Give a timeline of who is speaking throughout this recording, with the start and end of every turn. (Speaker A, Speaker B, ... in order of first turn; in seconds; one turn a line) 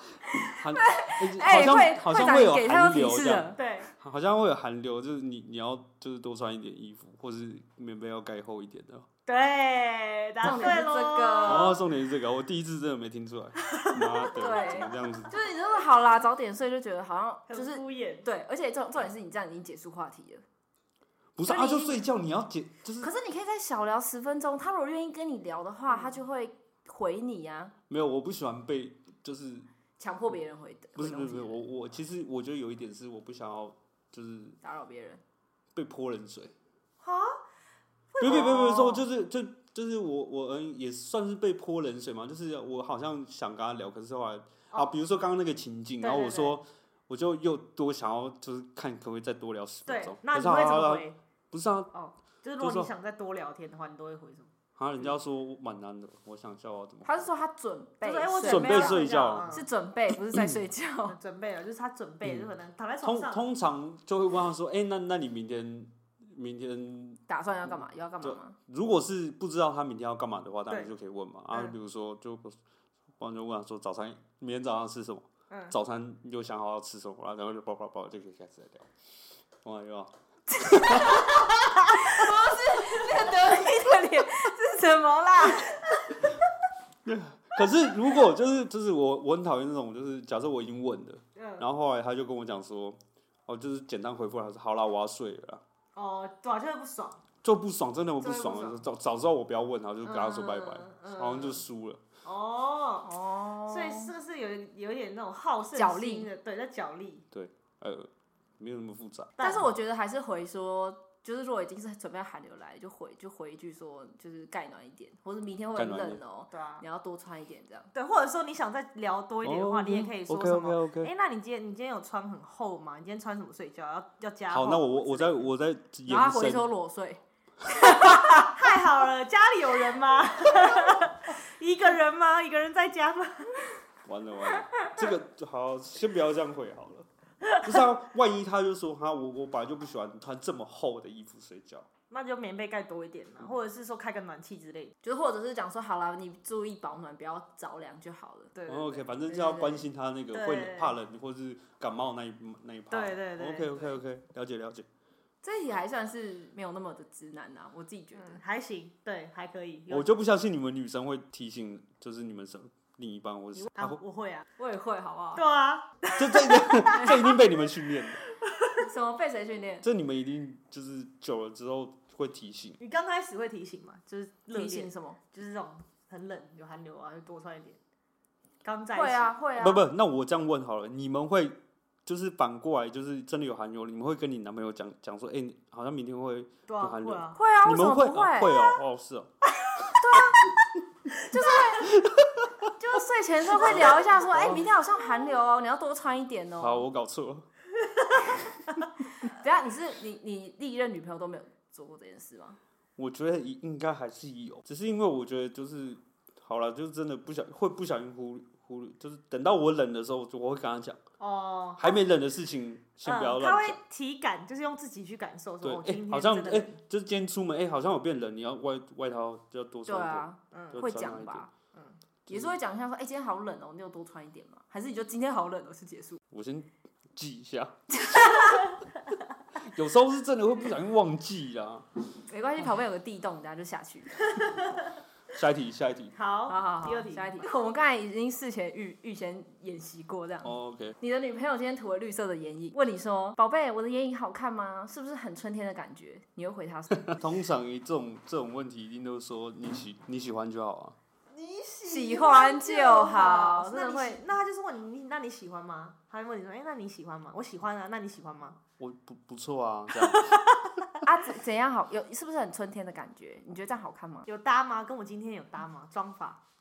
Speaker A: 0.4-3.6
Speaker B: 0.5-9.1
Speaker C: 3.6-3.9
Speaker C: 9.3-11.8
Speaker A: 10.4-11.8
Speaker B: 11.4-15.3
Speaker C: 13.6-14.8
Speaker A: 14.3-20.4
Speaker C: 17.5-18.3
Speaker B: 21.4-23.1
Speaker A: 21.4-22.1
Speaker A: 23.0-27.7
Speaker B: 27.9-29.7
Speaker A: 30.0-31.6
Speaker B: 31.0-34.6
Speaker A: 34.6-35.2
Speaker B: 35.8-36.5
Speaker C: 37.0-37.4
Speaker C: 38.1-39.0
Speaker B: 38.2-51.9
Speaker C: 46.0-46.6
Speaker C: 49.9-51.2
Speaker C: 51.9-54.5
Speaker B: 52.6-52.9
Speaker B: 54.8-57.3
Speaker A: 57.0-61.2
Speaker C: 58.0-59.7
Speaker B: 58.4-59.5
Speaker C: 61.1-63.5
Speaker B: 63.0-72.6
Speaker A: 67.3-68.6
Speaker B: 73.2-78.9
Speaker B: 79.6-81.3
Speaker A: 80.6-85.8
Speaker B: 87.0-95.6
Speaker C: 91.4-91.6
Speaker C: 96.0-97.2
Speaker B: 97.4-102.0
Speaker C: 98.2-98.8
Speaker C: 100.0-101.6
Speaker C: 102.2-107.2
Speaker A: 103.0-104.1
Speaker A: 105.8-106.3
Speaker B: 107.3-109.3
Speaker C: 109.4-109.6
Speaker A: 109.4-117.9
Speaker B: 115.8-116.2
Speaker C: 116.5-116.8
Speaker C: 117.9-125.4
Speaker B: 119.4-121.1
Speaker B: 124.5-126.7
Speaker A: 126.1-128.5
Speaker C: 127.9-133.6
Speaker B: 134.1-141.9
Speaker C: 142.1-144.9
Speaker A: 145.0-148.6
Speaker C: 148.6-149.0
Speaker B: 148.7-154.9
Speaker A: 149.3-149.8
Speaker C: 150.3-150.9
Speaker C: 152.9-154.0
Speaker A: 155.4-158.4
Speaker C: 158.1-160.1
Speaker B: 159.9-164.0
Speaker C: 163.6-164.5
Speaker A: 164.6-165.4
Speaker C: 165.3-167.1
Speaker B: 166.2-168.2
Speaker A: 168.8-169.8
Speaker B: 169.8-172.8
Speaker C: 172.8-177.8
Speaker A: 174.5-175.2
Speaker C: 178.6-179.3
Speaker A: 178.9-179.8
Speaker B: 179.6-189.3
Speaker C: 186.7-187.4
Speaker A: 187.3-188.7
Speaker C: 189.8-190.3
Speaker A: 190.0-190.4
Speaker C: 191.2-191.6
Speaker A: 191.3-191.9
Speaker B: 191.8-192.5
Speaker A: 192.8-196.8
Speaker B: 193.6-194.7
Speaker B: 196.6-197.5
Speaker A: 199.2-202.6
Speaker B: 203.0-211.0
Speaker C: 211.2-212.0
Speaker B: 211.8-213.8
Speaker C: 213.1-216.8
Speaker B: 215.6-221.5
Speaker A: 219.9-221.5
Speaker C: 220.5-220.8
Speaker B: 222.3-222.6
Speaker A: 222.3-226.2
Speaker B: 226.3-228.6
Speaker B: 229.6-231.9
Speaker A: 232.3-234.6
Speaker B: 235.3-236.1
Speaker C: 236.1-237.4
Speaker A: 236.5-247.2
Speaker B: 240.4-241.0
Speaker B: 247.0-251.0
Speaker C: 251.3-258.6
Speaker A: 251.9-254.2
Speaker B: 258.8-260.5
Speaker A: 261.0-264.2
Speaker C: 264.3-266.4